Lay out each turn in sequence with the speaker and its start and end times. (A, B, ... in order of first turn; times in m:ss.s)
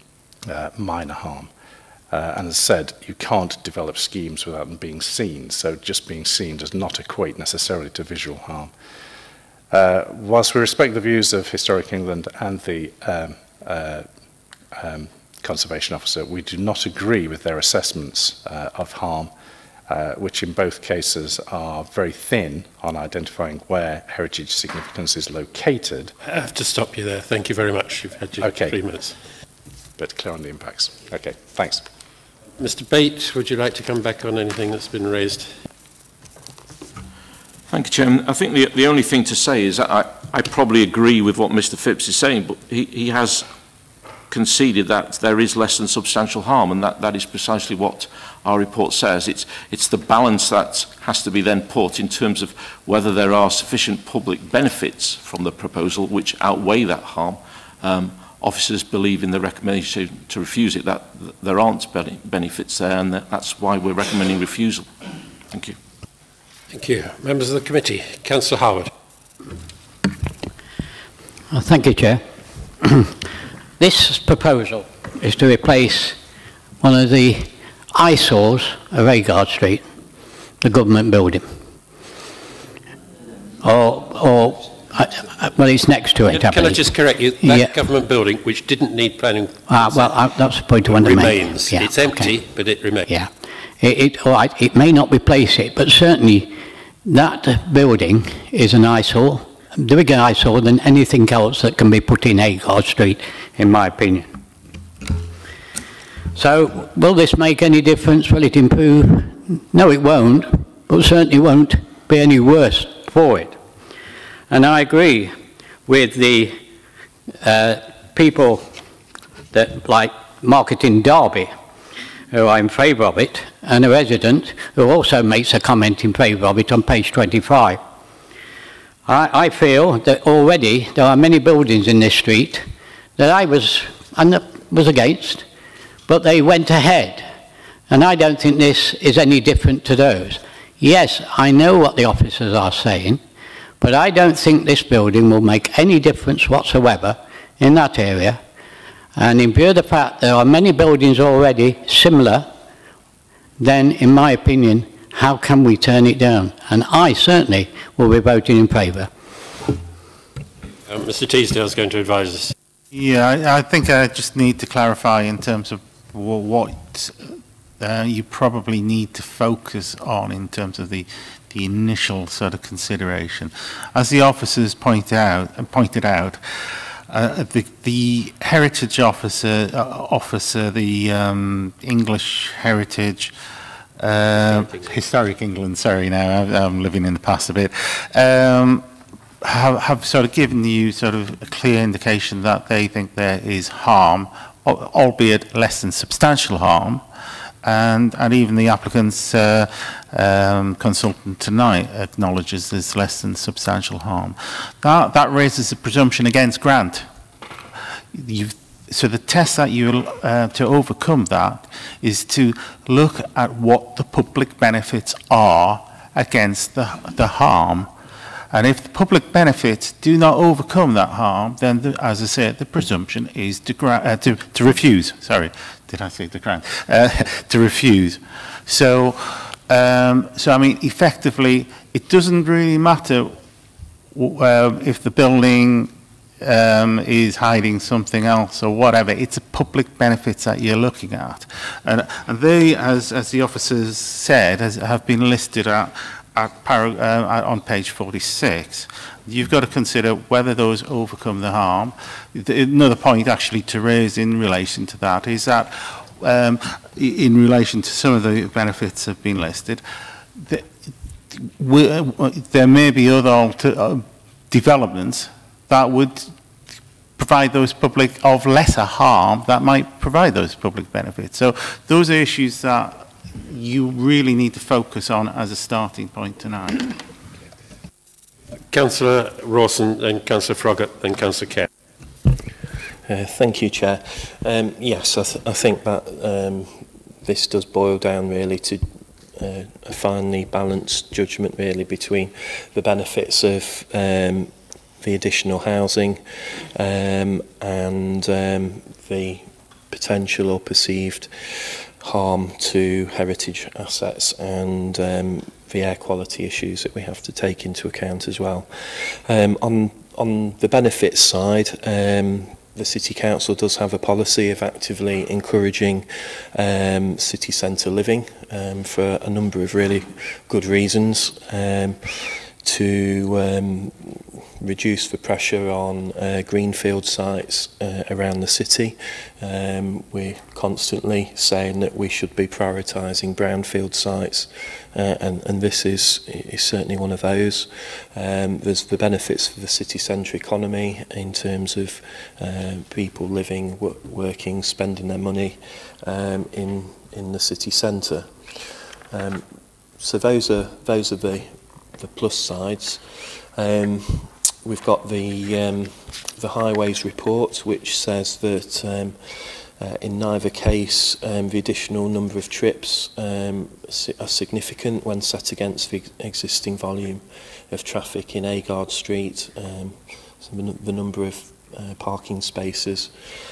0:00.5-0:01.5 A
0:02.1-0:08.7 A
0:09.7-0:14.1 A
0:14.8-0:19.3 A
0:19.9-0:26.1 A
0:26.2-0:29.2 B
0:28.4-0:28.8 A
0:30.0-0:31.9 A
0:32.6-0:35.5 B
0:37.7-0:43.5 C
0:44.3-1:04.9 C
1:05.5-1:05.8 C
1:06.7-1:08.9 B
1:11.5-1:12.2 D
1:12.8-1:13.1 D
1:13.8-1:16.2 D
1:16.8-1:19.9 D
1:20.6-1:21.6 D
1:23.6-1:27.8 D
1:26.3-1:30.2 B
1:29.7-1:32.4 D
1:30.8-1:33.1 B
1:33.1-1:44.3 D
1:46.4-1:53.6 D
1:54.5-1:56.6 D
1:57.4-1:58.7 D
1:59.5-2:01.6 D
2:02.3-2:07.8 D
2:09.1-2:15.5 D
2:16.1-2:17.3 D
2:17.9-2:23.2 D
2:23.8-2:28.4 D
2:29.2-2:32.5 D
2:33.6-2:39.1 D
2:40.9-2:42.5 B
2:42.9-3:03.3 E
3:04.0-3:08.8 E
3:04.5-3:05.0 B
3:09.4-3:17.1 E
3:17.6-3:27.1 E
3:28.1-3:37.9 E
3:38.5-3:53.4 E
3:54.2-4:19.8 E
4:20.4-4:20.7 E
4:21.3-4:26.3 E
4:27.2-4:37.0 E
4:38.7-4:41.7 B
4:43.1-5:49.5 F
5:50.0-6:13.1 F